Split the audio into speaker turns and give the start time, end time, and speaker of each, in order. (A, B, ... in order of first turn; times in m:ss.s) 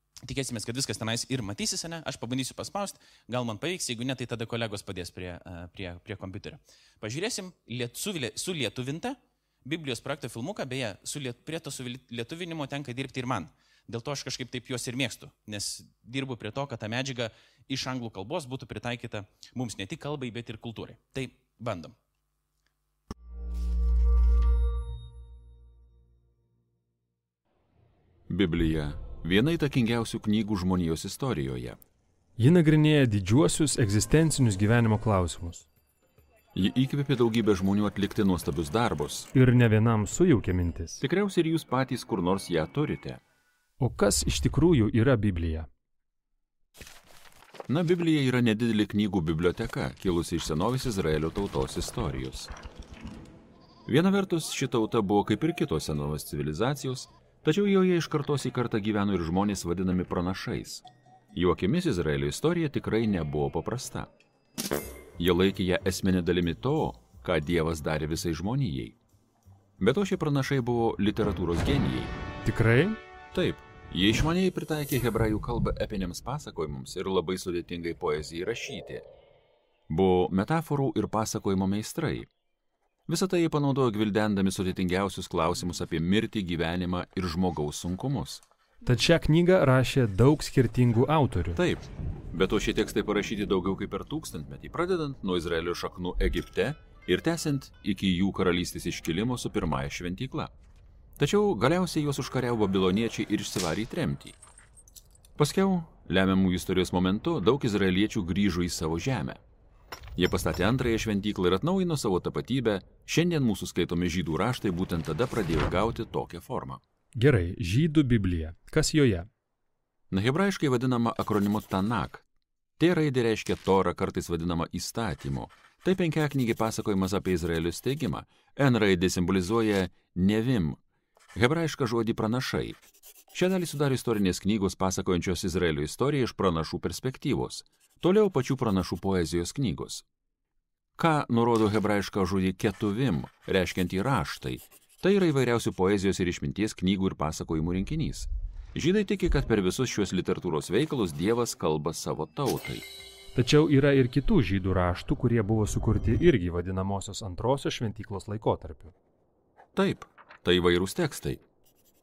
0:00.2-0:22.0 A
0:28.3-0:31.8 B
0:32.4-0:35.7 C
0:36.5-0:39.3 B
0:39.3-0:41.0 C
0:41.0-0:43.2 B
0:43.8-0:45.7 C
0:47.7-0:52.5 B
0:53.8-1:04.1 B
1:05.2-1:09.0 B
1:09.8-1:12.2 B
1:12.4-1:13.0 C
1:13.3-1:19.0 B
1:19.9-1:22.3 B
1:23.1-1:28.4 B
1:28.8-1:31.6 C
1:31.5-1:40.5 B
1:41.2-1:44.4 B
1:45.4-1:49.4 B
1:50.2-1:56.8 B
1:57.1-1:59.3 C
2:00.1-2:02.2 B
2:02.8-2:10.8 B
2:11.3-2:12.8 B
2:13.3-2:20.0 B
2:21.0-2:32.9 B
2:33.3-2:38.9 C
2:39.7-2:41.4 B